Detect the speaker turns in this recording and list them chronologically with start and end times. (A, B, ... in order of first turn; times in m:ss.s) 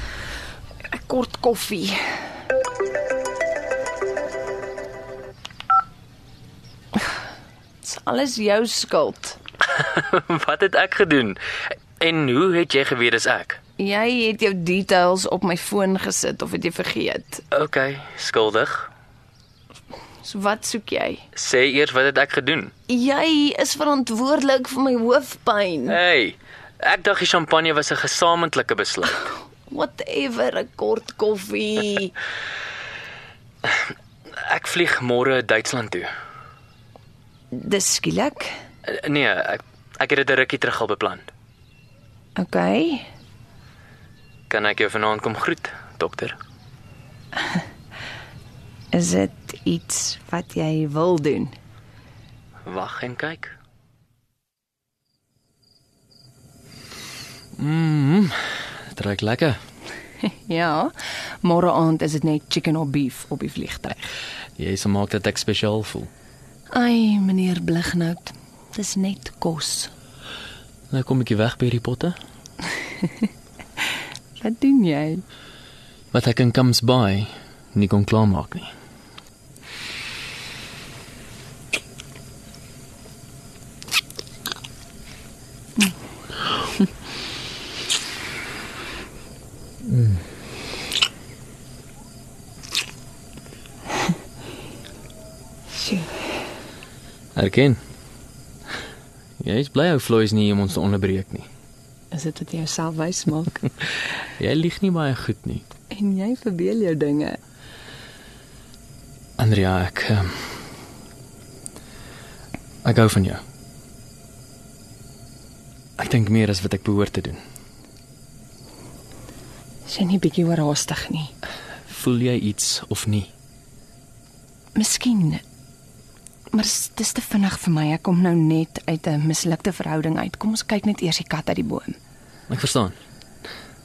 0:00.9-0:02.0 A
0:07.8-0:09.4 A
0:09.7-0:11.4 B
0:12.0-0:13.6 B
0:13.8-0:17.4 A
0:17.5-0:18.9 B
0:20.2-0:21.2 A
0:21.4-0:22.7 B
0:22.9-0:26.0 A
0:25.9-0:29.2 B
0:29.7-0:32.1 A
0:34.4-0:36.1 B
0:37.5-0:38.5 A
0:38.9-0:41.3 B
0:42.4-0:43.1 A
0:44.5-0:46.4 B
0:48.9-0:51.5 A
0:52.6-0:53.6 B
0:57.6-0:59.6 B
1:00.2-1:04.1 A
1:04.6-1:06.1 B
1:06.7-1:09.9 A
1:10.9-1:12.2 B
1:14.4-1:15.2 A
1:16.1-1:18.7 B
1:35.8-1:36.1 A
1:37.4-1:37.8 B
1:39.4-1:41.5 B
1:42.1-1:43.7 A
1:44.4-1:45.7 B
1:45.9-1:47.4 A
1:49.4-1:50.5 B
1:52.8-1:53.4 B
1:56.0-1:57.4 B
1:59.9-2:01.3 A
2:01.9-2:03.3 B
2:04.8-2:05.4 A
2:06.5-2:12.0 A
2:12.5-2:13.0 B